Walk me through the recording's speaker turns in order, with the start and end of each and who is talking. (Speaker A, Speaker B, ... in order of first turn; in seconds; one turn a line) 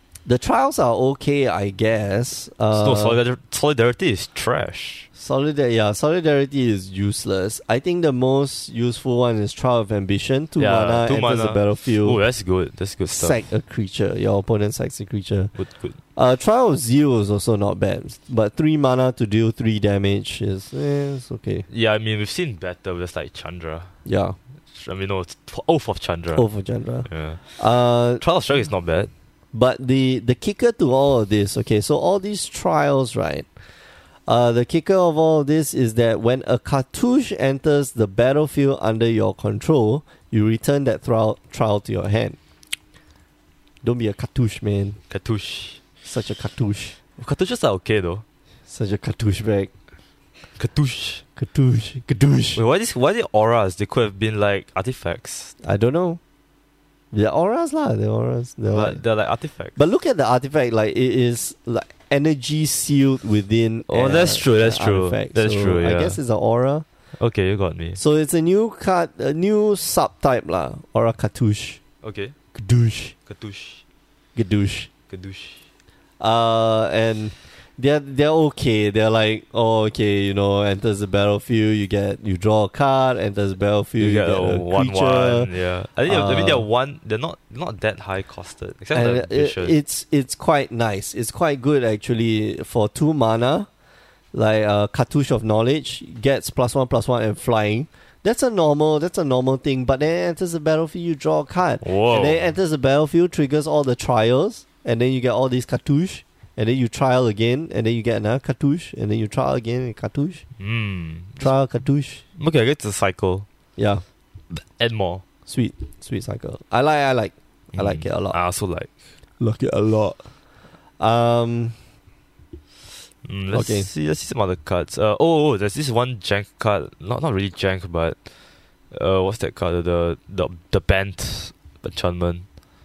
Speaker A: 0.2-3.2
Speaker B: 2.7-5.1
Speaker A: 5.1-12.2
Speaker B: 10.6-13.4
Speaker A: 13.1-15.5
Speaker B: 15.6-15.9
Speaker A: 16.1-21.7
Speaker B: 21.7-23.9
Speaker A: 24.0-24.4
Speaker B: 24.7-26.4
Speaker A: 26.3-28.2
Speaker B: 27.1-27.5
Speaker B: 28.2-29.1
Speaker A: 29.5-33.5
Speaker A: 34.3-42.4
Speaker A: 43.8-45.0
Speaker B: 45.1-45.8
Speaker A: 46.0-47.0
Speaker B: 47.2-48.2
Speaker A: 48.7-49.7
Speaker B: 50.6-51.2
Speaker A: 51.4-52.6
Speaker B: 52.5-55.5
Speaker A: 55.6-56.2
Speaker A: 57.1-59.0
Speaker B: 58.7-59.8
Speaker A: 59.8-66.8
Speaker B: 63.9-66.2
Speaker B: 67.2-68.0
Speaker A: 68.0-71.8
Speaker B: 72.0-72.3
Speaker A: 72.5-73.1
Speaker B: 73.2-73.8
Speaker A: 74.3-74.9
Speaker B: 75.1-75.6
Speaker A: 76.2-85.5
Speaker B: 84.0-89.7
Speaker A: 86.1-86.6
Speaker A: 88.9-93.7
Speaker A: 94.3-110.4
Speaker B: 101.8-102.5
Speaker B: 110.6-111.5
Speaker A: 111.4-112.2
Speaker B: 112.4-113.5
Speaker A: 113.8-114.0
Speaker B: 114.5-115.2
Speaker A: 115.5-118.4
Speaker B: 117.7-118.9
Speaker A: 119.4-120.2
Speaker A: 121.0-121.8
Speaker B: 123.2-128.2
Speaker A: 123.5-123.9
Speaker B: 128.9-132.4